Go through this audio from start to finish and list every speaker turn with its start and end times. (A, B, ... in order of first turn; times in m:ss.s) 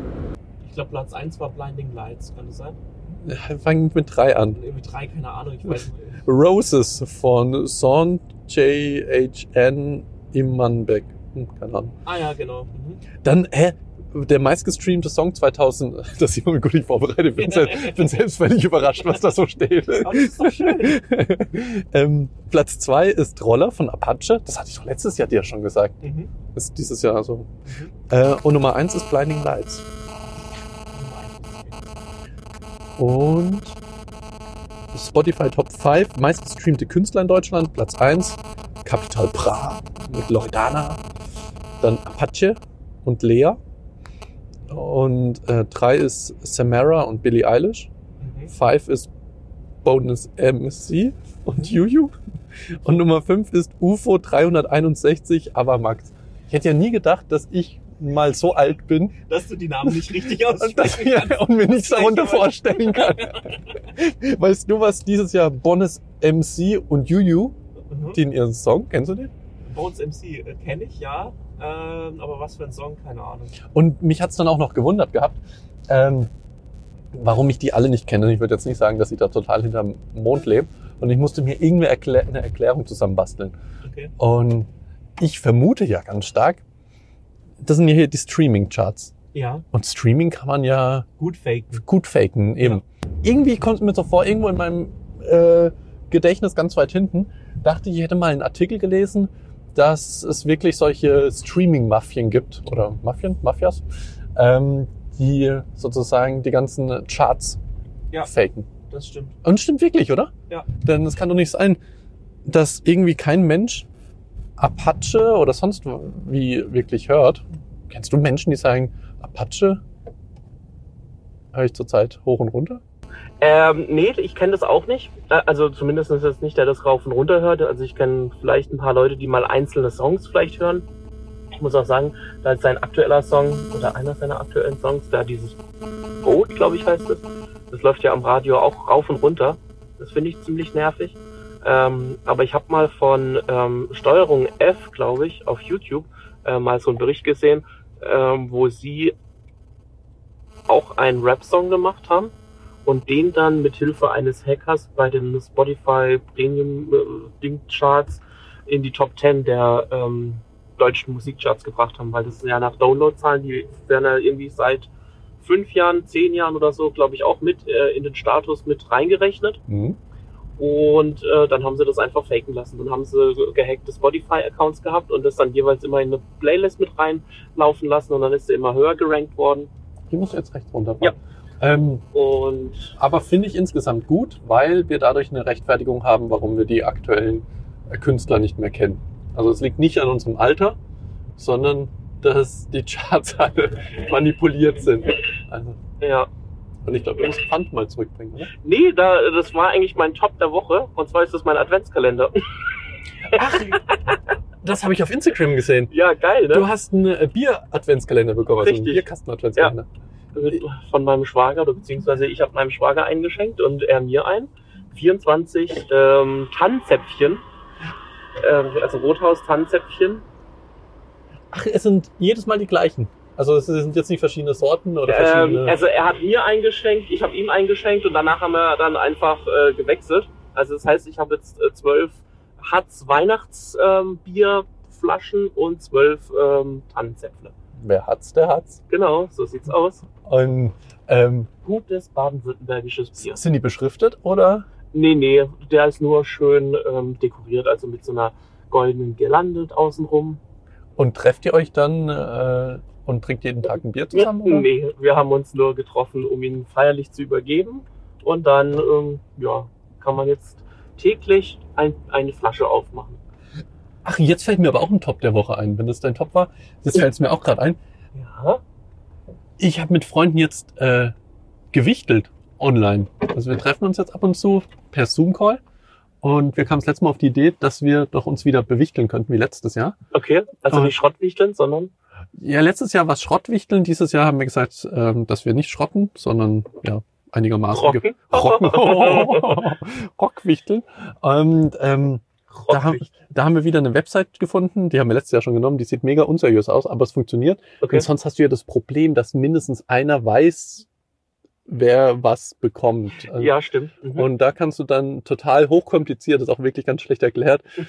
0:00.6-0:02.8 A
0:03.2-0:04.6 B
0:04.6-0:06.2 A
0:06.2-0:11.9 B
0:12.1-0:13.0 A
0:13.2-0:26.0 B
0:17.4-0:18.0 A
0:20.0-0:21.0 A
0:26.0-0:26.3 A
0:26.5-0:27.5 B
0:27.6-0:27.9 A
0:28.1-0:29.9 B
0:30.9-0:31.9 A
0:33.0-0:33.8 B
0:34.9-0:41.0 B
0:41.8-0:43.6 B
0:44.7-0:47.9 B
0:48.2-0:48.5 A
0:48.5-0:49.1 B
0:49.8-0:52.2 B
0:52.7-0:59.2 B
0:59.3-1:03.8 A
0:59.8-1:07.5 B
1:07.9-1:08.2 A
1:08.1-1:09.3 B
1:09.7-1:13.6 A
1:13.7-1:16.3 B
1:17.1-1:23.5 B
1:23.8-1:24.1 A
1:24.2-1:26.6 B
1:27.6-1:29.1 B
1:29.3-1:29.6 A
1:29.7-1:31.1 B
1:31.2-1:31.8 A
1:31.7-1:43.8 B
1:44.4-1:47.6 B
1:48.2-1:48.7 B
1:48.9-1:49.4 A
1:49.4-1:51.8 B
1:52.5-1:53.9 B
1:54.6-1:59.8 B
2:01.5-2:02.8 B
2:03.4-2:10.8 A
2:11.6-2:15.5 A
2:16.2-2:29.1 A
2:30.7-2:32.3 A
2:32.8-2:44.9 A
2:45.4-2:49.6 A
2:49.7-2:50.0 B
2:50.6-2:59.7 A
3:00.1-3:02.0 B
3:02.1-3:02.9 A
3:03.0-3:10.8 B
3:11.4-3:15.8 B
3:16.0-3:16.3 A
3:16.8-3:18.5 B
3:18.5-3:22.4 A
3:23.3-3:23.8 B
3:23.4-3:24.2 A
3:24.6-3:25.9 B
3:25.9-3:26.7 A
3:26.5-3:29.9 B
3:28.6-3:29.0 A
3:30.3-3:37.4 A
3:38.4-3:40.2 A
3:41.5-3:45.8 B
3:45.1-3:57.5 A
3:57.8-3:58.8 B
3:58.9-4:00.0 A
4:00.2-4:01.5 B
4:01.6-4:03.4 A
4:03.2-4:04.7 B
4:04.9-4:10.4 A
4:11.0-4:14.7 B
4:14.1-4:23.2 A
4:24.0-4:27.8 B
4:28.1-4:28.6 A
4:29.6-4:31.1 B
4:31.7-4:35.6 B
4:36.2-4:40.0 B
4:40.1-4:41.9 A
4:40.7-4:41.0 B
4:42.4-5:00.9 B
4:47.7-4:49.6 A
4:52.5-4:53.1 A
4:57.8-4:58.0 A
5:01.7-5:03.5 B
5:03.3-5:04.3 A
5:04.1-5:07.6 B